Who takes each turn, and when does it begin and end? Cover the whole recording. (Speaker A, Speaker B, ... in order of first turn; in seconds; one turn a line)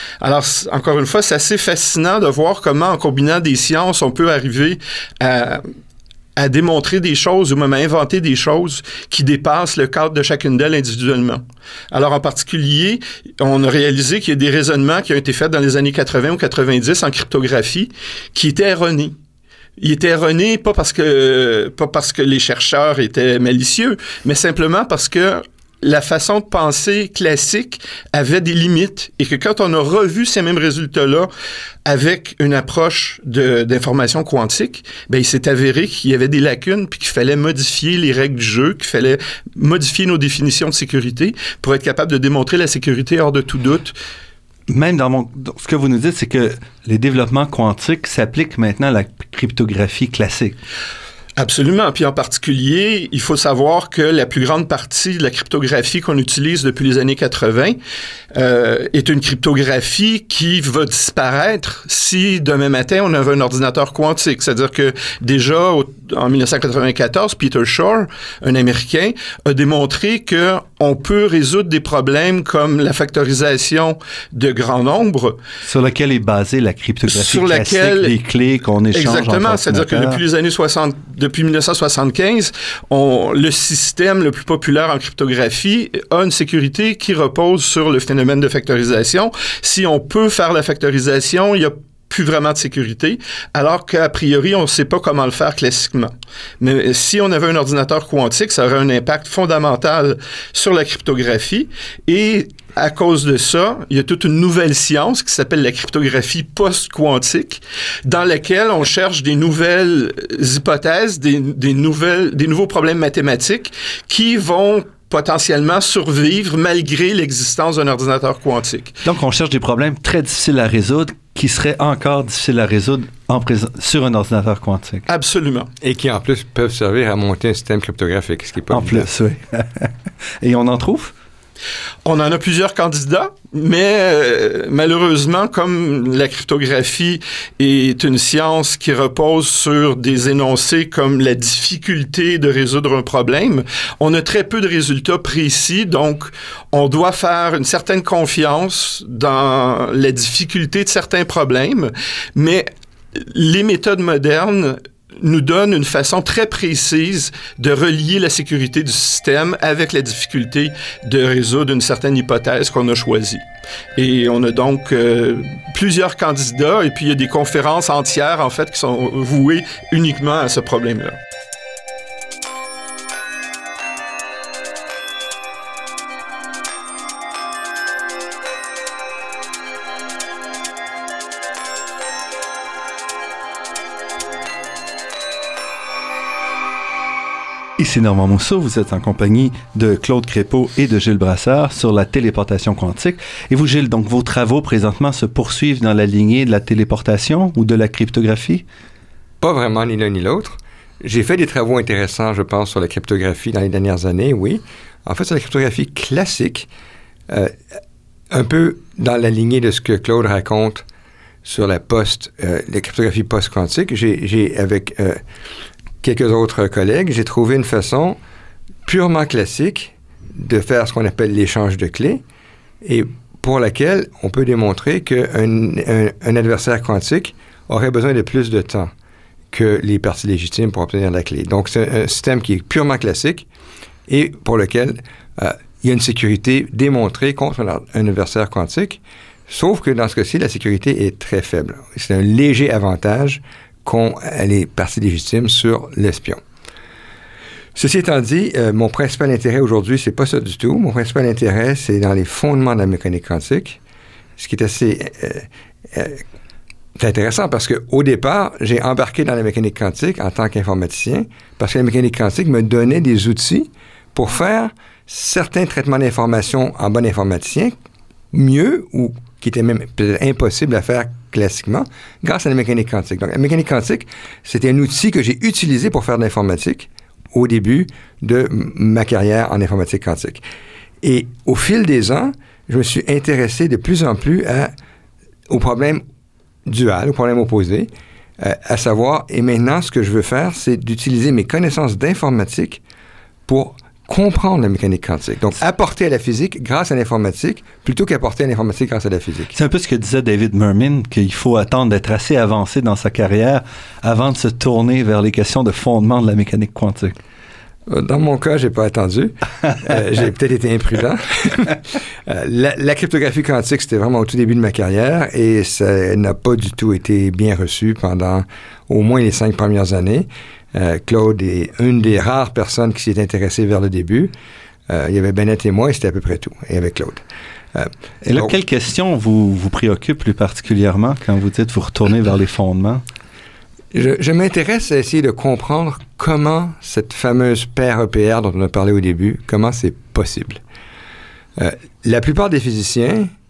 Speaker A: 0.2-5.6
Speaker A: 6.3-19.1
Speaker A: 19.8-31.3
Speaker A: 31.9-43.9
Speaker B: 44.7-50.6
Speaker A: 51.4-57.8
Speaker A: 58.3-75.4
Speaker B: 75.6-80.2
Speaker A: 77.1-78.1
Speaker A: 78.9-119.0
Speaker B: 119.0-125.0
Speaker A: 125.1-125.7
Speaker C: 125.8-129.1
Speaker B: 128.7-131.1
Speaker A: 132.0-163.4
Speaker A: 163.9-171.2
Speaker B: 187.8-198.6
Speaker C: 199.4-206.7
Speaker C: 207.3-207.6
Speaker C: 208.3-210.8
Speaker C: 211.4-215.2
Speaker C: 216.0-218.2
Speaker C: 218.8-222.2
Speaker C: 222.8-228.9
Speaker C: 229.5-233.4
Speaker C: 234.1-246.4
Speaker C: 247.7-253.8
Speaker C: 254.4-256.2
Speaker C: 257.0-267.7
Speaker C: 268.3-280.4
Speaker C: 281.0-284.7
Speaker C: 285.5-286.0
Speaker C: 286.6-292.8
Speaker C: 293.5-299.5
Speaker B: 299.5-307.2
Speaker C: 307.9-324.3
Speaker C: 324.9-328.5
Speaker B: 328.3-333.0
Speaker C: 333.9-340.6
Speaker C: 341.6-343.3